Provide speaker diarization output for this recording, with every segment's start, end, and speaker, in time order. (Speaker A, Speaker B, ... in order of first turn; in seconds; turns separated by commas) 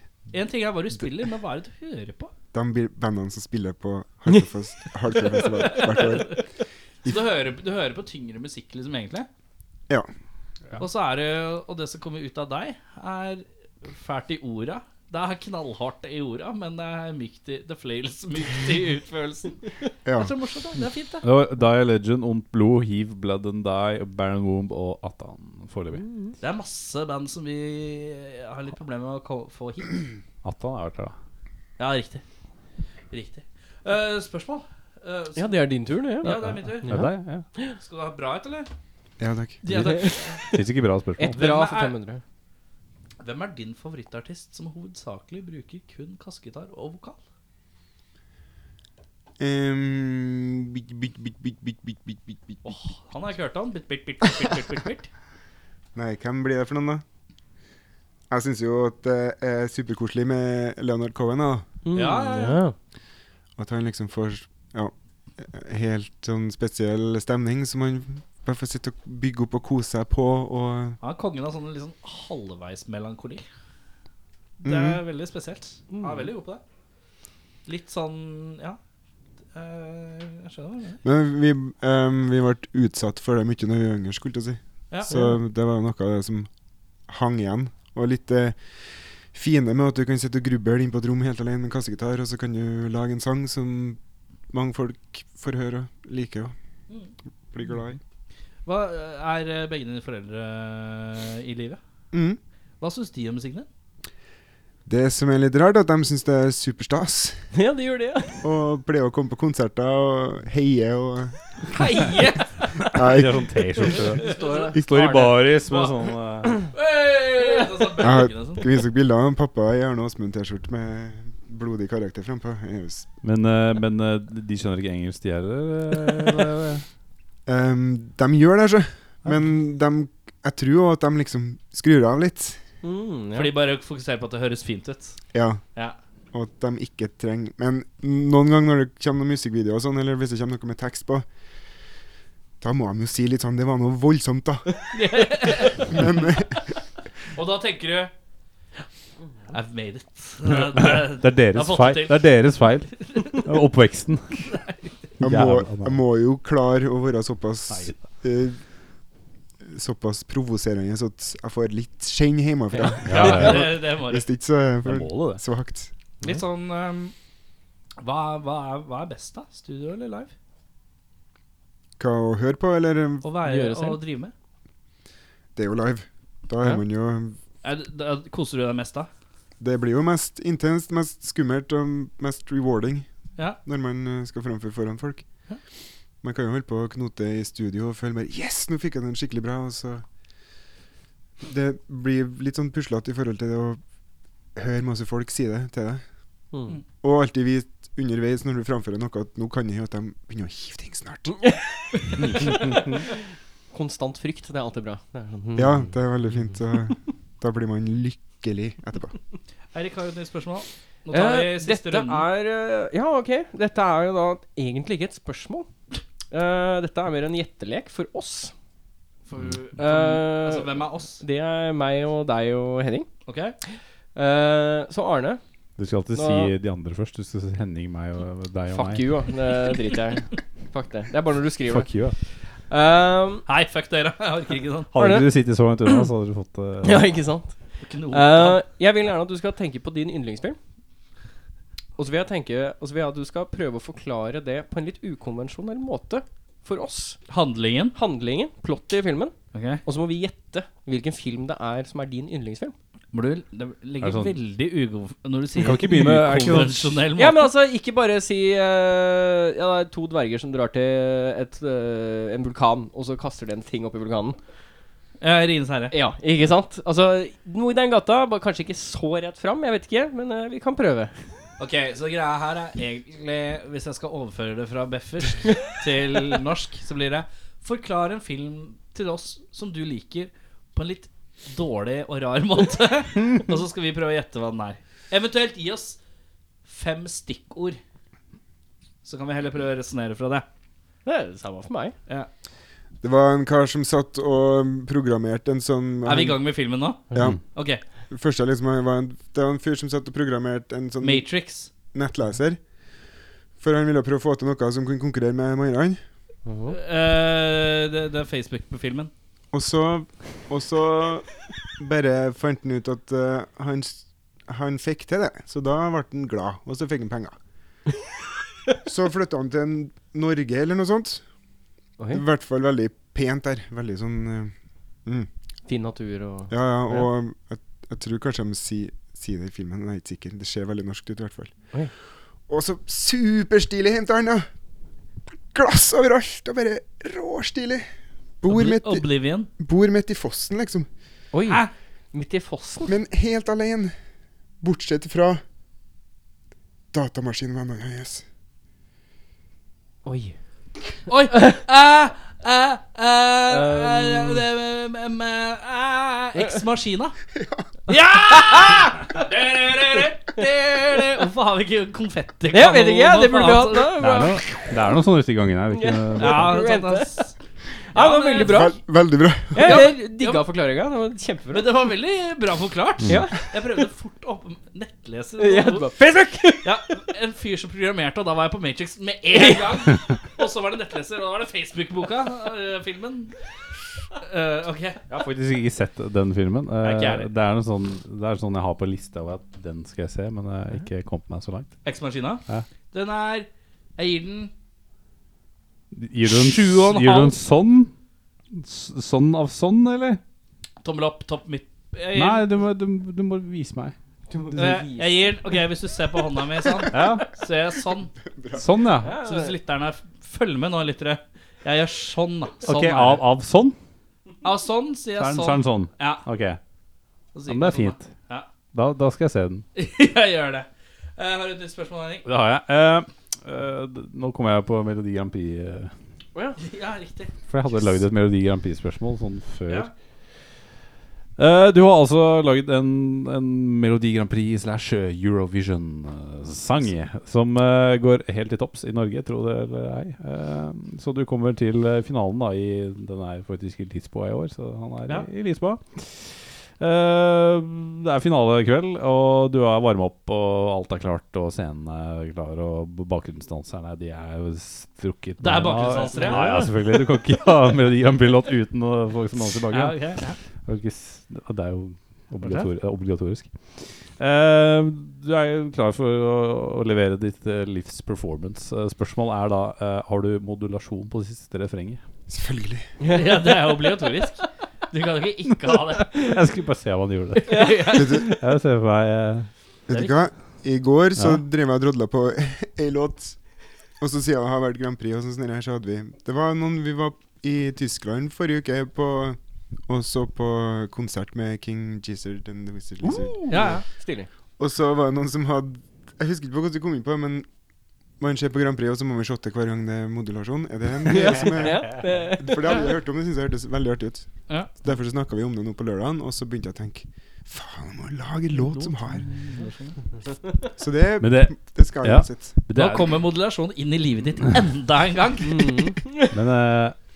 Speaker A: 0.3-2.3, Speaker B: 2.5-6.4, Speaker A: 5.6-6.4, Speaker A: 7.0-9.3, Speaker A: 10.8-21.2, Speaker B: 20.1-20.3, Speaker C: 21.2-26.0, Speaker D: 25.9-26.3, Speaker A: 26.4-30.0, Speaker C: 30.4-31.1, Speaker A: 31.8-32.2, Speaker A: 33.1-37.0, Speaker D: 35.4-37.7, Speaker C: 36.2-37.4, Speaker A: 37.8-38.7, Speaker B: 39.2-39.6, Speaker A: 39.6-40.5, Speaker D: 39.7-40.6, Speaker C: 40.5-41.4, Speaker D: 41.2-42.2, Speaker A: 41.3-41.9, Speaker A: 43.2-47.2, Speaker B: 49.4-52.6, Speaker A: 52.6-55.1, Speaker B: 55.9-57.0, Speaker B: 58.3-61.7, Speaker D: 61.8-62.7, Speaker A: 61.9-62.6, Speaker B: 63.6-71.0, Speaker A: 71.0-73.4, Speaker A: 74.6-76.6, Speaker B: 74.6-75.0, Speaker D: 75.9-76.2, Speaker A: 77.7-78.8, Speaker A: 79.5-81.0, Speaker B: 81.0-86.5, Speaker B: 87.1-88.8, Speaker B: 89.3-94.0, Speaker B: 94.5-96.5, Speaker B: 97.5-98.0, Speaker A: 98.7-101.8, Speaker B: 102.1-102.4, Speaker A: 102.8-103.7, Speaker B: 104.8-107.4, Speaker D: 107.5-108.4, Speaker B: 108.4-111.8, Speaker A: 111.7-113.2, Speaker B: 112.9-114.1, Speaker C: 112.9-116.5, Speaker A: 113.9-114.7, Speaker D: 114.2-115.3, Speaker A: 115.7-118.7, Speaker D: 117.2-118.0, Speaker B: 118.0-123.1, Speaker C: 123.2-126.8, Speaker B: 127.5-132.6, Speaker D: 132.8-133.5, Speaker A: 133.3-135.2, Speaker B: 135.3-135.6, Speaker B: 136.3-141.2, Speaker B: 142.6-146.6, Speaker A: 144.9-146.4, Speaker A: 147.3-148.1, Speaker A: 149.5-152.3, Speaker C: 150.4-154.5, Speaker A: 153.0-153.4, Speaker A: 154.4-154.8, Speaker C: 155.2-156.0, Speaker B: 155.2-158.6, Speaker B: 159.7-165.9, Speaker C: 163.0-163.8, Speaker A: 163.1-164.3, Speaker C: 164.8-165.4, Speaker A: 166.2-167.1, Speaker A: 168.0-170.3, Speaker B: 172.0-173.3, Speaker A: 173.2-174.3, Speaker D: 173.4-174.0, Speaker B: 175.5-177.4, Speaker A: 177.6-179.1, Speaker B: 179.6-183.1, Speaker B: 183.6-185.2, Speaker B: 186.2-190.0, Speaker B: 191.4-193.8, Speaker B: 194.5-196.0, Speaker D: 196.5-196.8, Speaker B: 197.0-202.7, Speaker D: 202.2-203.0, Speaker D: 203.7-205.9, Speaker B: 205.6-209.2, Speaker A: 209.7-212.2, Speaker D: 211.1-215.7, Speaker D: 216.3-218.5, Speaker A: 219.3-221.2, Speaker D: 219.8-223.1, Speaker A: 223.3-223.6, Speaker D: 224.1-225.4, Speaker C: 225.8-229.2, Speaker D: 226.1-226.5, Speaker D: 228.7-231.9, Speaker C: 231.7-232.2, Speaker D: 232.5-233.4, Speaker A: 233.5-234.9, Speaker C: 234.9-237.1, Speaker D: 234.9-235.3, Speaker D: 236.8-240.6, Speaker A: 237.8-238.6, Speaker D: 242.0-247.2, Speaker A: 247.3-247.9, Speaker D: 247.9-252.7, Speaker A: 249.5-249.8, Speaker A: 253.1-257.5, Speaker C: 254.0-254.3, Speaker C: 255.6-257.0, Speaker D: 257.1-264.4, Speaker A: 265.2-265.9, Speaker D: 265.9-271.1, Speaker A: 271.6-286.0, Speaker A: 286.6-287.8, Speaker A: 289.0-290.4, Speaker D: 291.0-291.9, Speaker B: 293.0-296.4, Speaker A: 296.0-297.0, Speaker B: 297.1-297.4, Speaker A: 297.5-297.8, Speaker B: 298.1-301.3, Speaker A: 301.0-301.7, Speaker B: 301.9-302.6, Speaker B: 303.6-306.0, Speaker D: 306.4-306.8, Speaker A: 306.7-309.1, Speaker B: 309.5-317.4, Speaker B: 318.8-321.2, Speaker B: 322.1-324.5, Speaker D: 325.6-327.0, Speaker B: 326.5-331.6, Speaker B: 332.5-334.5, Speaker B: 335.5-337.9, Speaker B: 338.4-340.9, Speaker A: 338.5-339.5, Speaker D: 341.3-342.9, Speaker B: 342.8-343.9, Speaker B: 344.6-345.4, Speaker B: 346.9-348.2, Speaker D: 350.0-350.3, Speaker A: 351.1-357.1, Speaker D: 351.3-351.6, Speaker D: 353.5-354.4, Speaker B: 357.4-357.6, Speaker A: 357.9-364.0, Speaker D: 358.3-358.9, Speaker D: 362.5-364.8, Speaker C: 364.0-366.6, Speaker D: 365.7-367.3, Speaker A: 366.2-367.3, Speaker D: 367.9-368.8, Speaker A: 367.9-368.8, Speaker B: 368.4-369.9, Speaker D: 369.5-371.7, Speaker A: 369.6-370.4, Speaker A: 371.5-375.9, Speaker C: 373.0-373.3, Speaker D: 373.1-373.4, Speaker D: 375.4-376.8, Speaker A: 376.6-383.3, Speaker D: 379.3-379.8, Speaker A: 384.1-385.0, Speaker C: 385.1-391.8, Speaker A: 386.8-387.3, Speaker A: 391.8-394.5, Speaker C: 395.9-397.9, Speaker A: 396.2-397.4, Speaker C: 398.5-400.2, Speaker A: 400.8-402.5, Speaker C: 402.1-403.9, Speaker D: 404.3-405.4, Speaker A: 404.5-408.1, Speaker C: 406.9-407.3, Speaker B: 408.3-408.7, Speaker C: 408.5-409.1, Speaker D: 409.0-409.5, Speaker A: 409.1-413.2, Speaker C: 412.6-413.8, Speaker A: 414.4-416.2, Speaker C: 415.2-416.6, Speaker A: 417.3-418.5, Speaker C: 417.5-418.1, Speaker C: 418.7-419.6, Speaker A: 419.7-422.2, Speaker C: 422.2-425.9, Speaker A: 426.6-427.9, Speaker C: 427.5-429.9, Speaker C: 431.4-472.0, Speaker A: 455.4-456.7, Speaker A: 459.7-460.4, Speaker A: 462.4-462.7, Speaker B: 472.3-472.9, Speaker D: 473.0-474.1, Speaker A: 473.1-476.4, Speaker C: 475.7-479.5, Speaker A: 477.4-478.3, Speaker D: 477.5-477.9, Speaker B: 477.9-478.3, Speaker B: 479.9-483.4, Speaker A: 479.9-480.2, Speaker C: 481.1-481.4, Speaker B: 484.0-493.8, Speaker D: 493.0-494.3, Speaker A: 493.5-493.8, Speaker B: 494.6-497.5, Speaker B: 498.2-509.3, Speaker D: 501.0-502.9, Speaker A: 508.5-510.0, Speaker B: 510.8-512.5, Speaker C: 511.2-513.2, Speaker A: 512.7-515.8, Speaker D: 515.4-516.3, Speaker C: 516.3-517.0